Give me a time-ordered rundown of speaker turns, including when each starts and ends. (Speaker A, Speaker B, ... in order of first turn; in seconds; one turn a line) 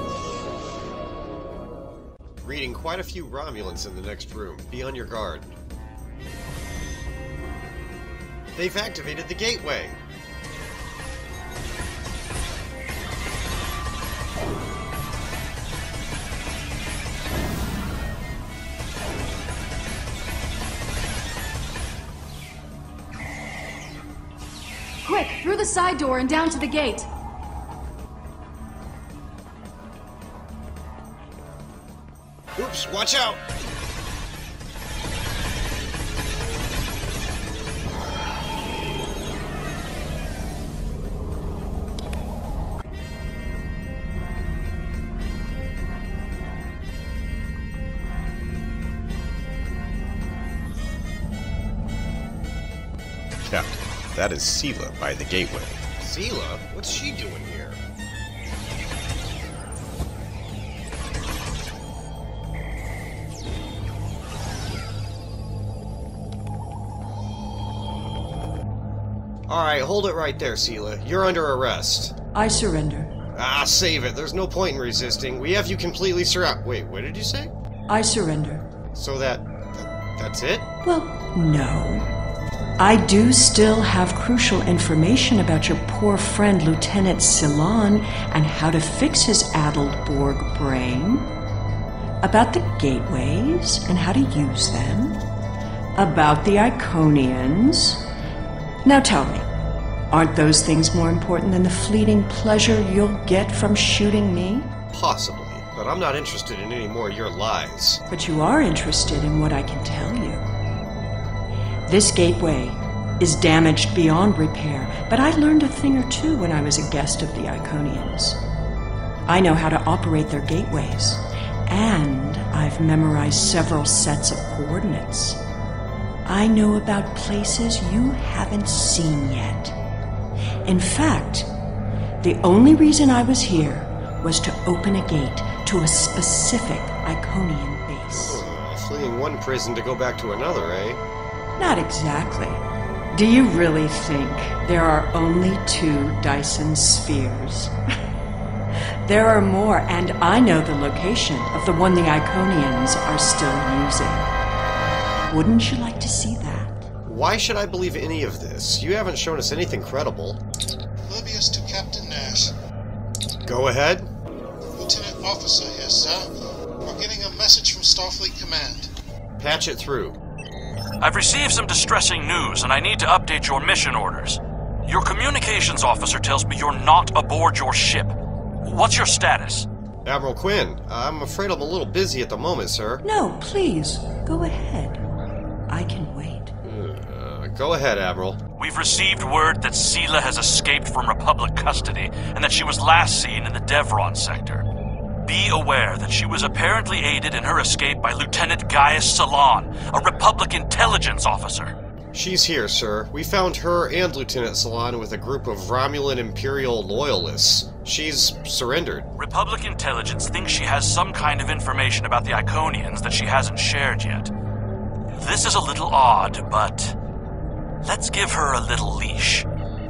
Speaker A: 2.4-5.6
Speaker A: 8.6-10.0
Speaker B: 25.0-27.1
Speaker A: 32.6-33.4
Speaker A: 53.5-57.8
Speaker A: 69.5-72.2
Speaker C: 72.3-73.2
Speaker A: 73.3-77.5
Speaker C: 77.9-78.7
Speaker A: 78.9-80.7
Speaker C: 80.8-82.1
Speaker C: 82.8-91.3
Speaker C: 92.2-95.2
Speaker C: 96.0-98.0
Speaker C: 98.8-99.5
Speaker C: 100.1-104.8
Speaker A: 104.9-108.0
Speaker C: 108.1-110.5
Speaker C: 111.9-118.4
Speaker C: 119.3-125.4
Speaker C: 126.2-129.8
Speaker C: 130.7-131.5
Speaker C: 132.2-138.4
Speaker A: 138.1-141.0
Speaker C: 141.6-147.8
Speaker C: 149.1-154.3
Speaker C: 155.3-156.8
Speaker A: 157.0-160.4
Speaker D: 161.1-162.5
Speaker A: 163.4-164.1
Speaker D: 164.8-166.3
Speaker D: 166.8-168.9
Speaker A: 169.4-170.2
Speaker E: 171.0-179.7
Speaker A: 180.1-183.0
Speaker C: 183.0-185.1
Speaker C: 185.7-186.5
Speaker A: 186.6-188.4
Speaker E: 188.6-194.6
Speaker E: 195.2-201.7
Speaker A: 202.1-209.1
Speaker E: 209.2-214.3
Speaker E: 215.1-216.9
Speaker E: 217.8-219.5